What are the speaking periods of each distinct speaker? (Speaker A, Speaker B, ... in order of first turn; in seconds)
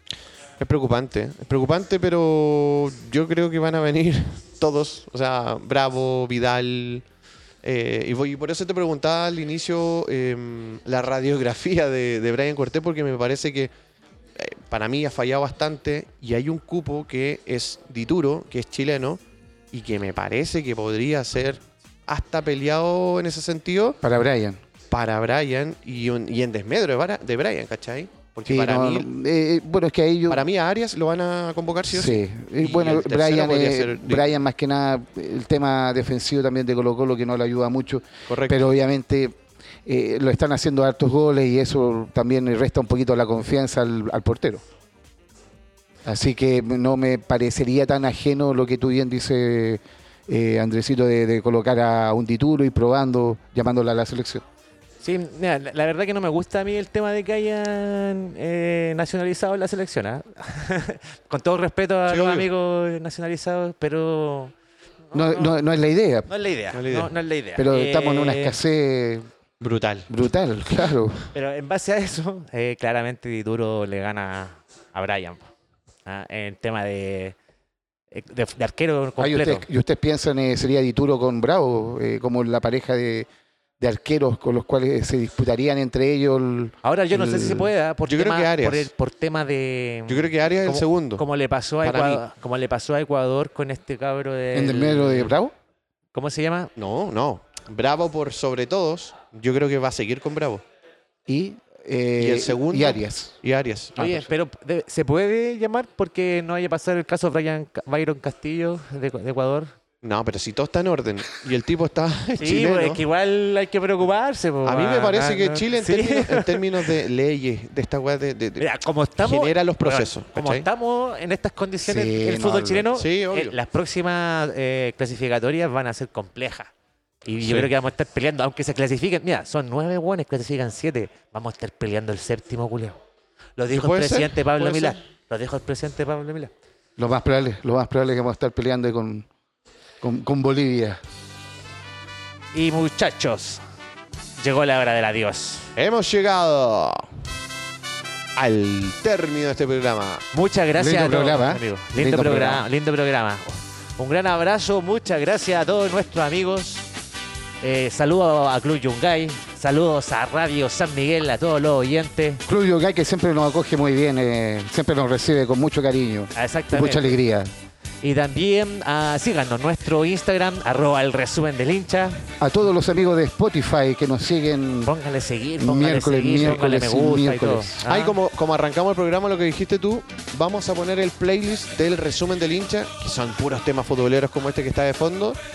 Speaker A: 0.6-7.0, 7.6-13.7, 14.4-19.2, 19.7-24.0, 24.9-29.1, 30.3-34.3, 38.3-38.6, 62.1-62.5, 66.7-67.1, 69.6-70.1, 88.0-88.9, 90.1-91.2, 91.8-92.2, 96.8-100.6, 102.2-104.3, 110.0-113.0, 114.6-118.7, 119.2-120.7, 122.9-123.5, 127.4-127.7, 133.7-135.0, 145.8-147.1, 148.3-150.2, 177.8-185.4
Speaker B: 24.0-24.6, 28.5-30.4, 31.9-39.3, 39.8-44.6, 46.0-54.4, 65.1-66.3, 67.6-69.3, 70.1-71.2, 79.2-83.3, 83.8-87.7, 94.5-95.5, 101.3-103.3, 121.8-122.9, 137.0-139.3, 140.0-141.0, 150.8-152.6, 162.5-167.5, 172.4-174.9, 175.6-177.8
Speaker C: 55.0-64.5, 65.1-65.6, 66.3-68.6, 71.3-75.5, 76.0-77.3, 78.1-79.7, 86.8-95.3, 96.1-96.7, 104.0-109.7, 112.4-116.7, 118.6-126.7, 127.2-133.0, 133.6-136.5, 142.5-143.6, 144.4-145.7, 150.3-156.8, 157.6-162.4, 166.3-167.2, 168.0-172.3, 174.8-178.2